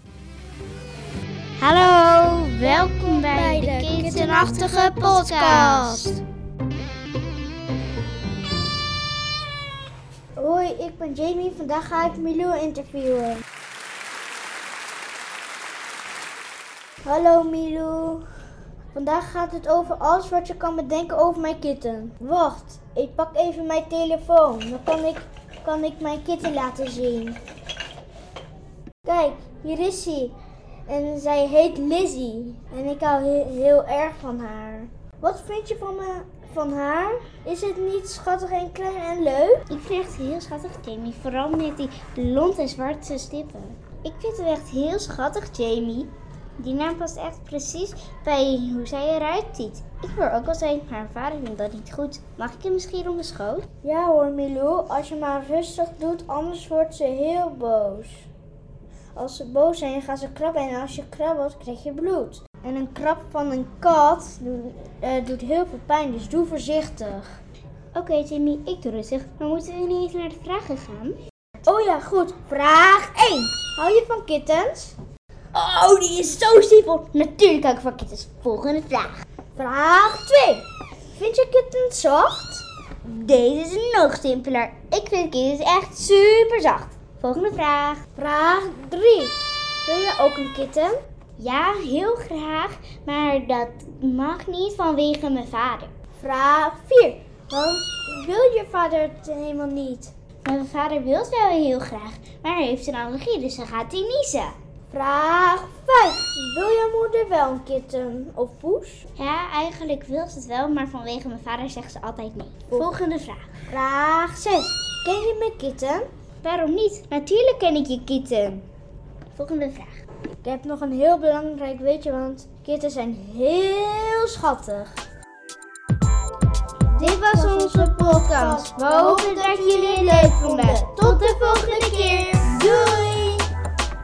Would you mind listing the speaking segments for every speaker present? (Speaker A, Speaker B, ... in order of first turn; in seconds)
Speaker A: 1.6-6.2, 39.7-53.6, 67.9-71.2, 75.5-79.2, 83.0-88.0, 91.4-95.9, 100.4-104.5, 109.2-113.6, 116.4-118.6, 119.3-119.9, 127.0-133.3
Speaker B: 2.6-6.2, 10.3-13.4, 17.1-18.2, 18.9-27.4, 29.0-30.3, 30.9-39.6, 53.8-58.3, 59.1-67.3, 71.6-74.9, 79.5-80.6, 81.2-82.6, 88.2-91.0, 96.2-100.1, 104.9-109.0, 113.7-116.1, 120.4-124.9, 126.9-133.4